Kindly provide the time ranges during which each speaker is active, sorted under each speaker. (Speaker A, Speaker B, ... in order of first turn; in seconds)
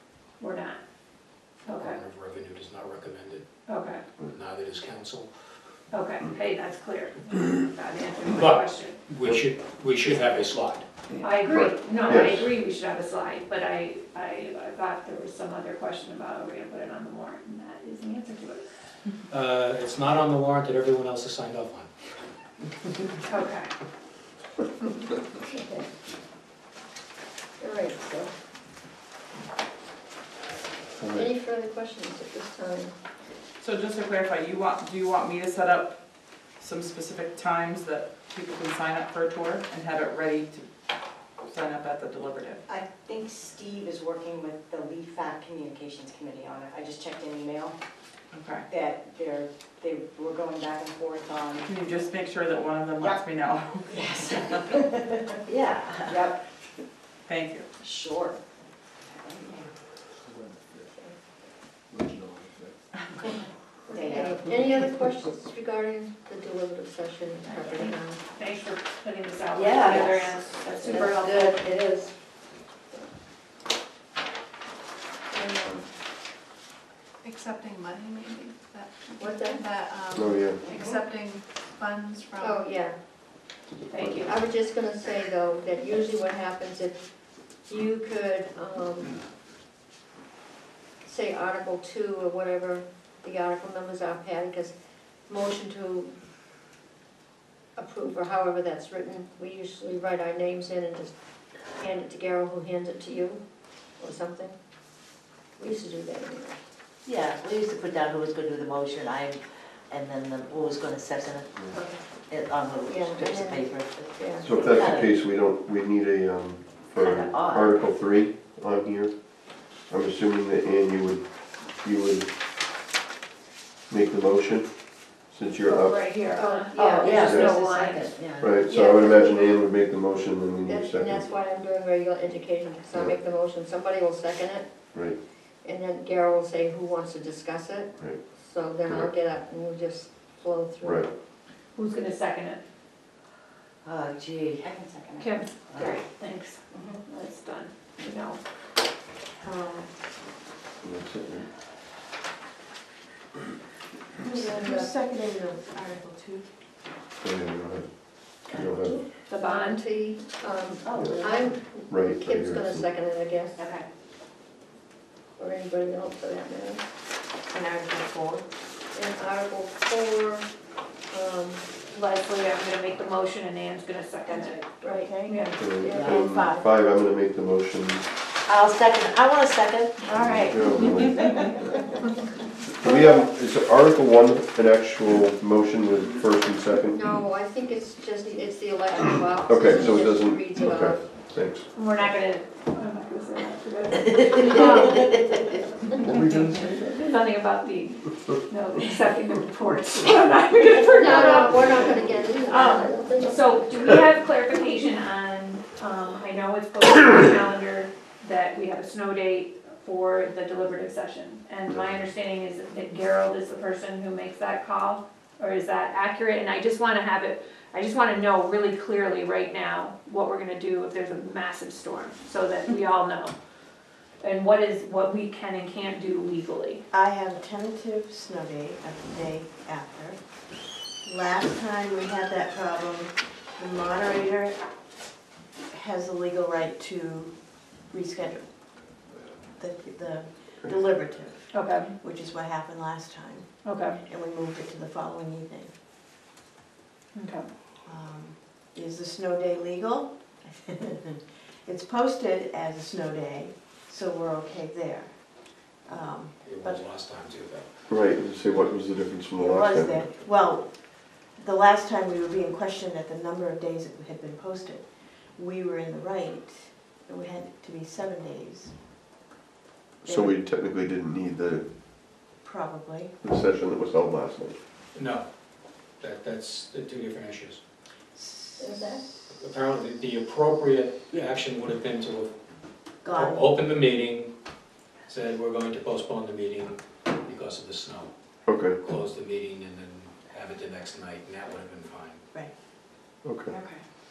Speaker A: 0.4-0.8, 1.6-2.0, 3.7-4.0, 5.9-9.0, 11.2-18.7, 23.2-23.7, 67.6-71.7, 83.9-84.3, 125.7-128.0, 141.8-142.6, 145.2-148.4, 159.3-159.8, 171.9-174.6, 175.2-175.6, 191.7-195.2, 196.9-201.9, 202.4-223.3, 224.2-226.8, 241.5-241.9, 243.6-244.0, 247.2-247.5
Speaker B: 1.7-3.5, 4.3-5.3, 8.3-10.9, 19.3-21.9, 256.4-257.7, 274.9-275.3, 276.0-277.6, 279.4-282.3, 283.1-284.3, 285.1-288.1, 288.8-292.2
Speaker C: 11.1-11.4, 33.6-36.0, 36.6-40.7, 41.4-42.6, 48.3-48.7, 51.6-54.8, 57.3-57.7
Speaker D: 11.4-12.5, 31.0-31.3, 80.1-80.6, 83.9-84.2, 114.4-119.2, 119.9-121.2, 121.8-122.3, 123.9-126.2, 127.1-127.7, 128.4-131.3, 138.9-139.1, 140.8-141.1, 150.8-151.5, 157.2-157.9, 158.4-159.0, 160.9-161.3, 161.9-162.9, 175.5-178.1, 180.1-181.7, 182.8-187.1, 188.9-191.7, 196.1-196.8, 257.9-260.1, 270.0-271.7, 273.2-274.6, 288.5-288.8, 293.2-293.5
Speaker E: 25.4-25.9, 27.6-28.3, 31.1-32.9, 60.8-61.2, 63.9-68.2, 70.8-71.6, 75.3-75.9, 79.2-79.7, 82.4-83.0, 84.2-87.0, 87.7-89.2, 91.0-94.7, 95.3-96.1, 97.8-101.1, 101.8-103.4, 104.0-104.6, 105.6-106.6, 112.8-114.7, 126.1-128.1, 128.6-129.4, 130.7-134.8, 135.6-141.1, 154.3-154.9, 159.4-163.7, 165.4-166.9, 168.9-170.5, 171.1-171.7, 174.8-175.1, 175.7-176.2, 186.9-191.1, 200.9-203.9, 278.6-279.1
Speaker F: 42.7-47.7, 48.8-51.5, 58.0-58.3, 63.9-64.3, 144.8-145.1
Speaker G: 55.5-56.3, 69.6-70.2, 70.9-72.0, 107.1-111.7, 112.3-115.2, 117.0-118.0, 126.7-128.7, 143.8-144.8, 178.5-180.2
Speaker H: 77.2-78.9, 79.5-80.1, 80.7-82.5
Speaker I: 149.4-149.9, 154.2-156.5, 167.5-168.4, 174.8-176.7, 180.1-180.8, 226.9-230.2, 231.0-234.6, 235.7-238.5, 239.6-245.7, 247.8-251.1, 251.7-256.8, 259.4-268.8, 270.0-270.4, 272.4-273.2, 278.1-279.0, 283.0-283.6